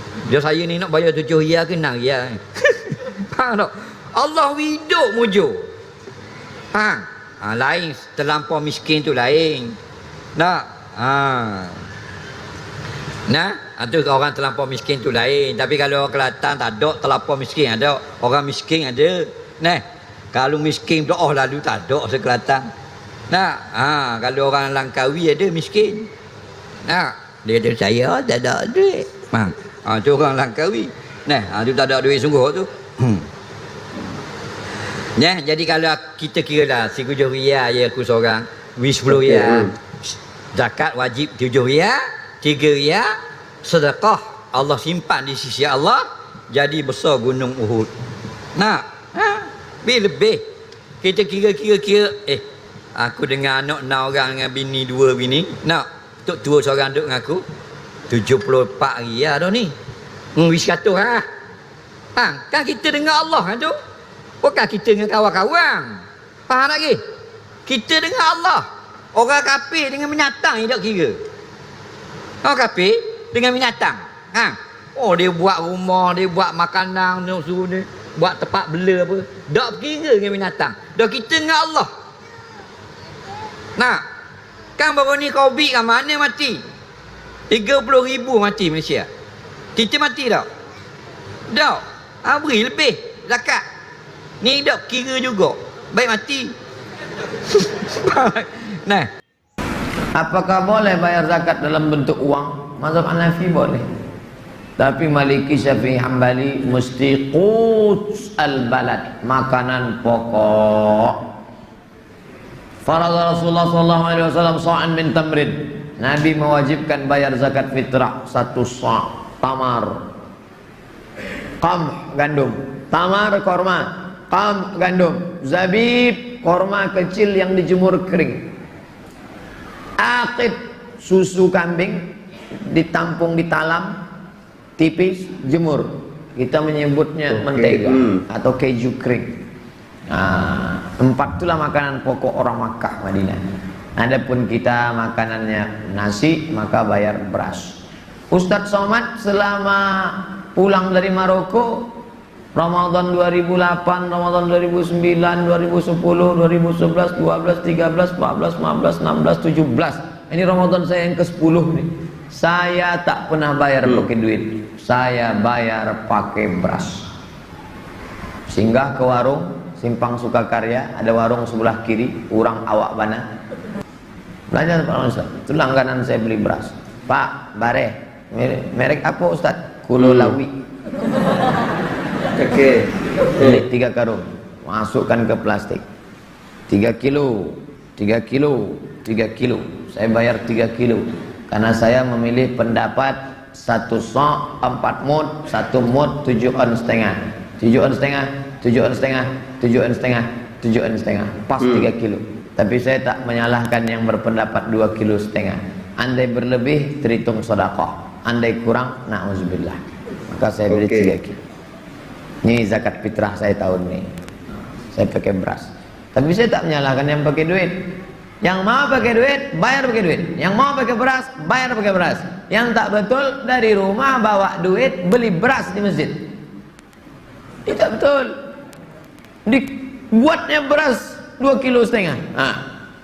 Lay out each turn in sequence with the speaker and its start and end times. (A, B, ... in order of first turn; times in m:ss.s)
0:00.3-0:05.7 A
0:06.7-0:09.8 A
0:10.4-0:11.8 A
0:13.3-0:22.7 A
0:23.3-0:26.1 A
0:26.8-0:33.2 A
0:35.2-0:39.7 A
0:39.1-0:39.7 B
0:40.5-0:47.9 A
0:48.6-0:50.4 A
0:51.0-0:52.4 A
0:52.9-0:57.4 A
0:58.1-0:59.7 A
1:00.4-1:01.2 A
1:02.2-1:03.7 A
1:04.4-1:07.0 A
1:07.6-1:11.2 A
1:12.4-1:21.9 A
1:23.8-1:24.0 A
1:24.8-1:26.6 A
1:27.5-1:29.1 A
1:29.8-1:30.5 A
1:31.5-1:33.6 A
1:34.4-1:36.5 A
1:37.5-1:39.1 A
1:40.1-1:43.8 C
1:44.8-1:51.2 C
1:52.8-2:00.0 C
2:01.6-2:08.5 C
2:10.0-2:12.1 C
2:12.7-2:14.0 C
2:14.8-2:19.4 C
2:17.3-2:18.2 B
2:20.1-2:23.4 C
2:24.0-2:27.8 C
2:28.3-2:32.0 C
2:32.6-2:47.1 C
2:48.5-2:53.2 C
2:54.5-3:00.5 C
3:00.0-3:00.4 B
3:02.4-3:03.6 B
3:03.4-3:05.8 C
3:06.7-3:31.4 C
3:21.6-3:21.9 B
3:30.7-3:31.1 B
3:32.4-3:34.1 C
3:34.9-3:46.2 C
3:47.6-3:48.4 C
3:49.4-3:52.6 C